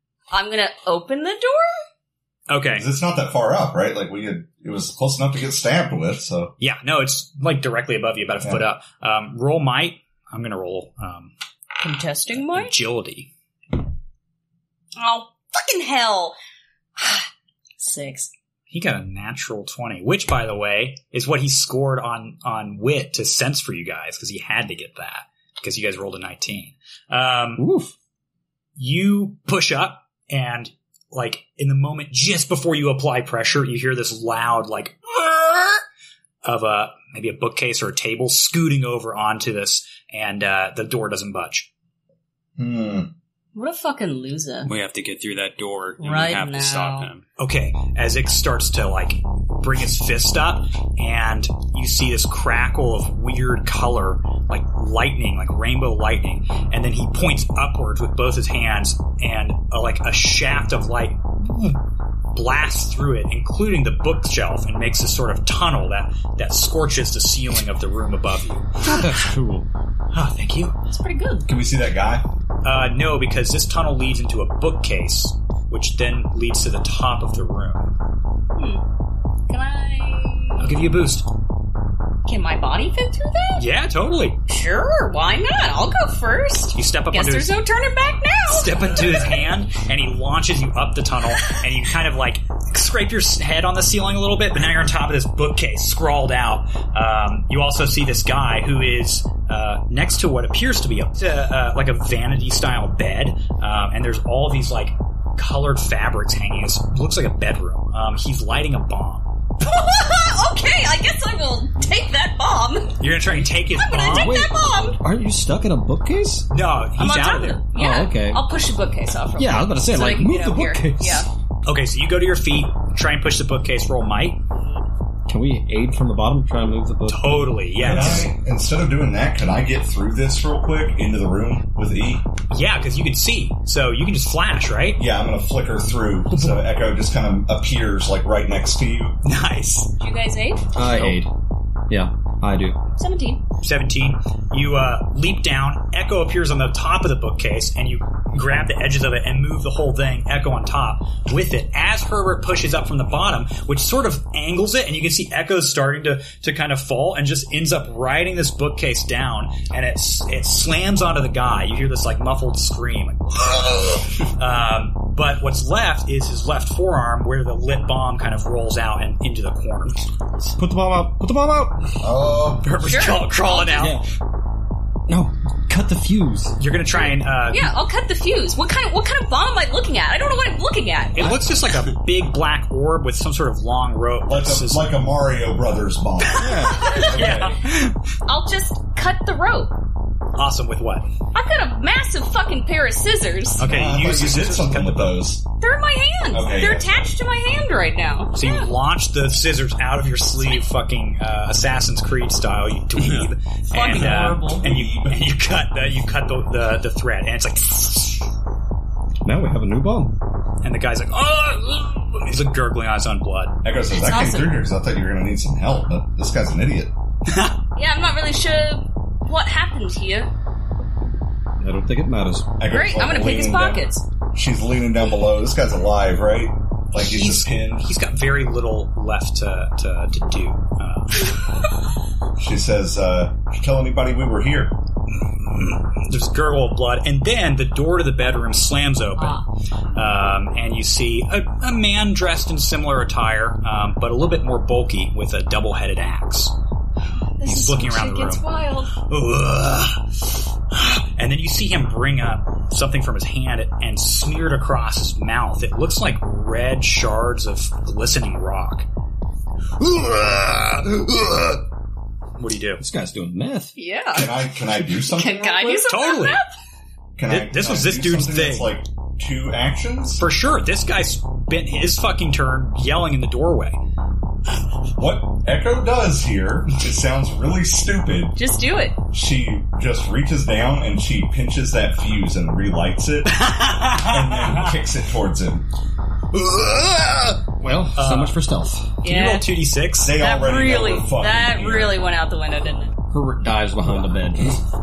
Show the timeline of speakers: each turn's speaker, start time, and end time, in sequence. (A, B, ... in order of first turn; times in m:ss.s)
0:00.3-0:01.8 A
0:02.5-0:02.9 B
0:02.7-0:06.5 C
0:06.6-0:11.3 B
0:11.8-0:12.7 A
0:12.3-0:13.3 B
0:15.0-0:16.3 A
0:17.0-0:18.3 A
0:18.7-0:27.6 B
0:27.6-0:27.9 D
0:28.8-0:35.8 B
0:36.4-0:41.7 B
0:42.6-0:43.1 C
0:43.5-0:44.7 A
0:44.6-0:47.2 E
0:46.0-0:47.1 A
0:47.4-1:01.8 B
1:02.3-1:09.2 B
1:08.8-1:09.7 D
1:10.1-1:10.7 B
1:10.9-1:11.5 A
1:11.4-1:12.3 C
1:12.6-1:17.9 B
1:18.6-1:18.8 A
1:19.5-1:20.7 A
1:20.6-1:21.3 B
1:22.2-1:23.6 A
1:23.6-1:24.4 B
1:24.5-1:29.4 A
1:26.7-1:27.6 B
1:28.5-1:49.2 B
1:49.6-1:53.0 A
1:53.0-1:54.4 B
1:53.7-1:55.0 A
1:54.0-1:56.5 D
1:56.5-1:57.6 B
1:57.0-2:01.3 A
1:57.8-1:58.4 D
1:59.3-2:01.3 D
2:01.6-2:04.4 B
2:05.3-2:08.3 D
2:07.1-2:08.3 B
2:07.8-2:12.3 C
2:12.5-2:15.0 B
2:15.0-2:19.2 C
2:19.2-2:19.9 B
2:20.0-2:20.7 A
2:20.7-2:21.3 D
2:20.9-2:21.2 B
2:21.9-2:22.8 D
2:23.0-2:23.4 A
2:23.6-2:50.0 B
2:50.4-2:52.1 D
2:52.0-2:52.6 C
2:52.6-2:54.0 B
2:52.8-2:53.9 A
2:53.8-2:54.0 D
2:55.1-2:56.6 D
2:56.6-2:57.7 B
2:57.5-3:01.4 A
3:01.1-3:04.9 B
3:04.2-3:07.6 C
3:06.4-3:06.9 D
3:06.4-3:08.0 B
3:06.8-3:07.2 A
3:08.2-3:09.7 A
3:10.4-3:11.1 B
3:11.3-3:13.7 A
3:13.6-3:15.2 B
3:13.6-3:15.5 C
3:15.6-3:18.7 A
3:16.3-3:17.1 C
3:18.3-3:28.3 B
3:23.0-3:23.3 E
3:23.7-3:24.7 A
3:23.9-3:25.2 C
3:29.2-3:30.1 D
3:30.6-3:33.6 B
3:33.6-3:36.9 C
3:33.9-3:34.5 A
3:37.3-3:37.5 B
3:37.8-3:40.3 A
3:41.6-3:42.6 D
3:42.6-3:47.9 C
3:42.6-3:44.0 A
3:46.9-3:51.5 B
3:52.4-3:54.8 C
3:55.1-3:59.4 B
3:59.2-3:59.4 A
3:59.9-4:06.5 B
4:07.4-4:08.9 A
4:07.4-4:08.4 B
4:09.0-4:18.8 B
4:19.8-4:21.6 D
4:22.4-4:22.8 B
4:22.8-4:23.8 D
4:23.8-4:24.3 A
4:24.1-4:25.9 C
4:25.0-4:26.5 A
4:25.9-4:26.4 B
4:27.2-4:30.2 C
4:27.3-4:28.7 B
4:30.2-4:33.8 B
4:35.0-4:38.4 C
4:38.4-4:39.0 A
4:39.1-4:45.6 C
4:43.3-4:44.7 B
4:46.3-4:49.0 D
4:47.9-4:48.4 B
4:49.0-4:50.1 B
4:49.0-4:49.4 A
4:50.0-4:52.0 C
4:50.1-4:52.9 A
4:53.1-4:54.6 D